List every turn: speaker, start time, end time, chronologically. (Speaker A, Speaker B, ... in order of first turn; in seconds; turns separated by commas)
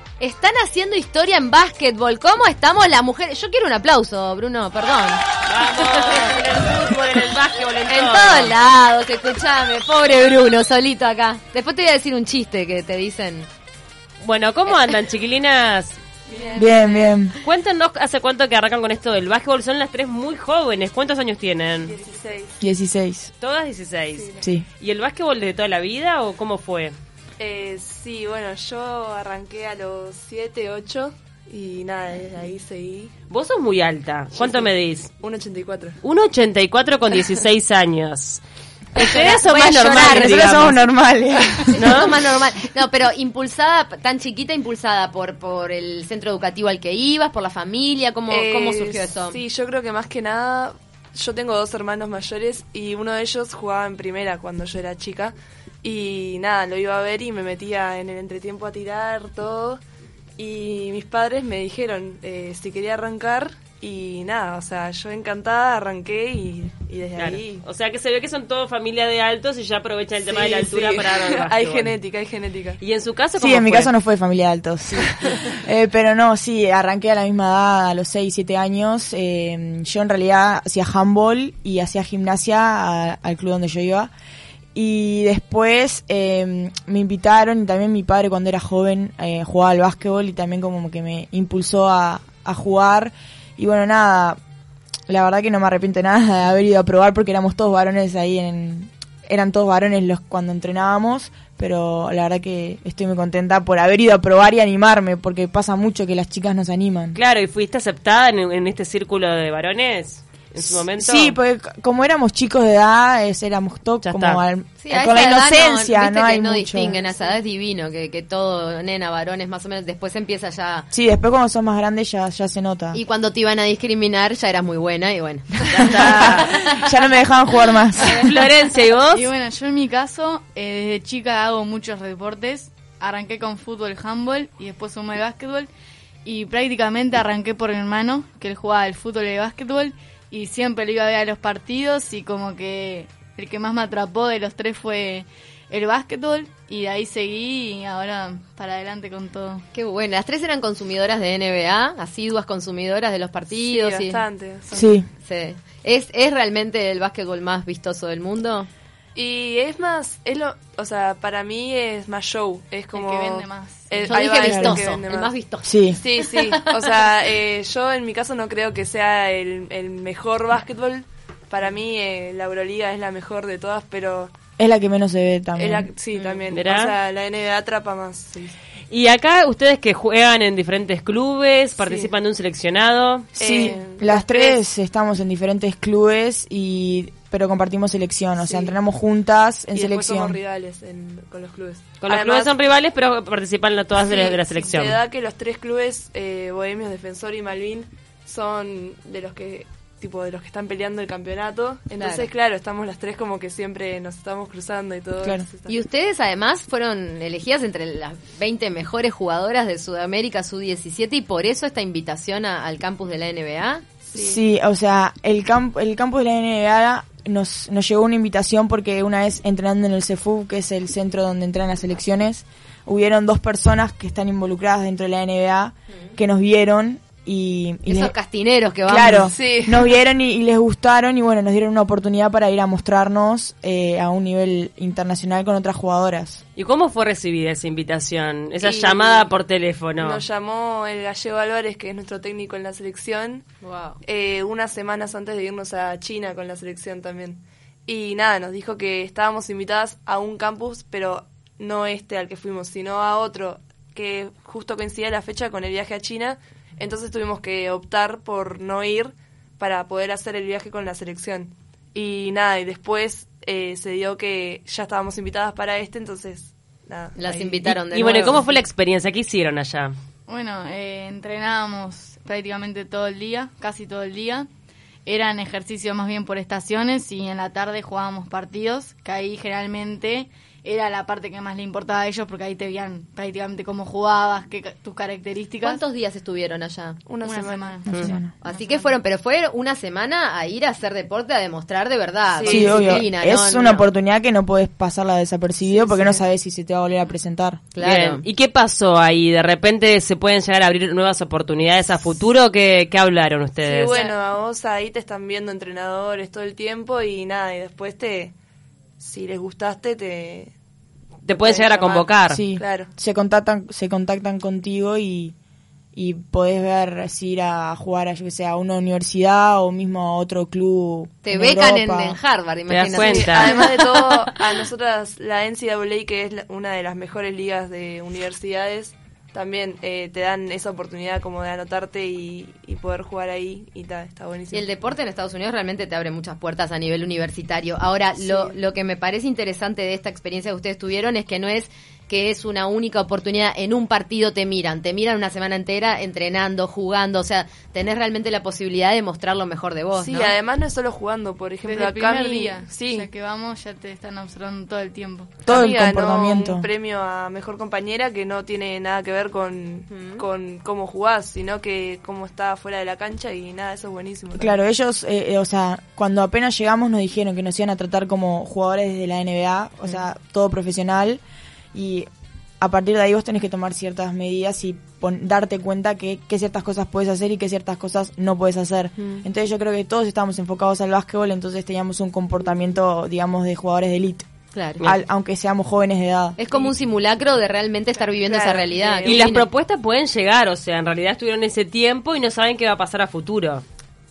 Speaker A: 0.2-5.2, Speaker B: 5.5-8.6, Speaker A: 5.9-6.3, Speaker A: 7.9-13.5, Speaker B: 14.2-16.0, Speaker C: 16.3-17.1, Speaker D: 16.3-16.9, Speaker E: 16.6-17.4, Speaker B: 17.4-21.9, Speaker D: 21.9-22.6, Speaker E: 22.6-23.3, Speaker B: 23.4-26.9, Speaker D: 24.1-24.4, Speaker D: 27.4-33.1, Speaker B: 33.3-35.1, Speaker D: 34.4-34.7, Speaker D: 35.2-36.0, Speaker B: 36.0-38.4, Speaker A: 38.9-40.7, Speaker B: 39.0-40.8, Speaker E: 40.0-41.9, Speaker A: 41.7-49.4, Speaker B: 41.7-42.1, Speaker D: 48.3-59.8, Speaker D: 60.4-67.6, Speaker B: 67.2-71.9, Speaker D: 70.2-72.8, Speaker B: 72.8-73.9, Speaker E: 73.3-84.1, Speaker E: 84.7-94.4, Speaker E: 95.1-107.2, Speaker B: 107.1-111.4, Speaker E: 110.8-117.0, Speaker B: 114.0-114.4, Speaker A: 114.8-120.9, Speaker E: 120.9-123.0, Speaker A: 122.9-126.9, Speaker E: 125.7-128.3, Speaker B: 125.7-126.6, Speaker A: 128.0-128.3, Speaker B: 128.0-129.3, Speaker C: 129.0-135.7, Speaker C: 136.2-149.6, Speaker A: 149.7-154.2, Speaker D: 153.5-154.9, Speaker E: 154.7-155.1, Speaker A: 155.0-158.7, Speaker D: 159.1-165.4, Speaker C: 162.9-164.2, Speaker A: 164.0-167.1, Speaker E: 164.4-164.8, Speaker E: 165.6-166.0, Speaker D: 165.9-174.3, Speaker E: 174.6-175.9, Speaker D: 175.6-178.6, Speaker B: 176.5-176.9, Speaker B: 178.9-183.3, Speaker D: 181.8-182.1, Speaker E: 183.3-190.4, Speaker D: 183.4-184.6, Speaker D: 188.4-188.8, Speaker D: 189.7-192.5, Speaker B: 192.0-195.0, Speaker D: 194.1-205.7, Speaker A: 202.0-202.3, Speaker A: 205.7-213.9, Speaker D: 214.0-214.4, Speaker E: 214.1-228.1, Speaker A: 227.9-229.3, Speaker E: 228.8-236.4, Speaker D: 229.3-229.9, Speaker B: 236.6-240.2, Speaker D: 238.6-239.3, Speaker D: 240.0-243.5, Speaker A: 243.6-244.0, Speaker D: 244.0-267.7, Speaker A: 267.1-268.6, Speaker B: 267.6-270.0, Speaker C: 270.3-274.5, Speaker C: 275.1-285.8, Speaker A: 285.6-287.1, Speaker D: 287.1-287.8, Speaker C: 287.2-289.0, Speaker E: 287.9-288.3, Speaker A: 288.4-293.9, Speaker D: 292.3-293.0, Speaker E: 292.5-297.6, Speaker D: 295.7-296.2, Speaker A: 297.7-298.2, Speaker B: 297.8-303.9, Speaker D: 303.6-308.3, Speaker D: 309.0-310.5, Speaker B: 311.2-312.4, Speaker D: 311.4-312.9, Speaker E: 312.3-315.3, Speaker E: 315.9-322.2, Speaker A: 321.2-324.3, Speaker B: 322.7-323.7, Speaker D: 322.9-334.9, Speaker A: 334.5-350.3, Speaker D: 338.2-338.5, Speaker D: 349.9-353.1, Speaker C: 351.6-355.4, Speaker E: 355.4-356.7, Speaker D: 355.5-364.6, Speaker A: 359.9-360.2, Speaker E: 364.4-371.2, Speaker E: 371.7-372.1, Speaker E: 372.6-386.4, Speaker A: 384.5-384.8, Speaker A: 386.4-389.5, Speaker D: 388.2-389.4, Speaker B: 389.0-393.6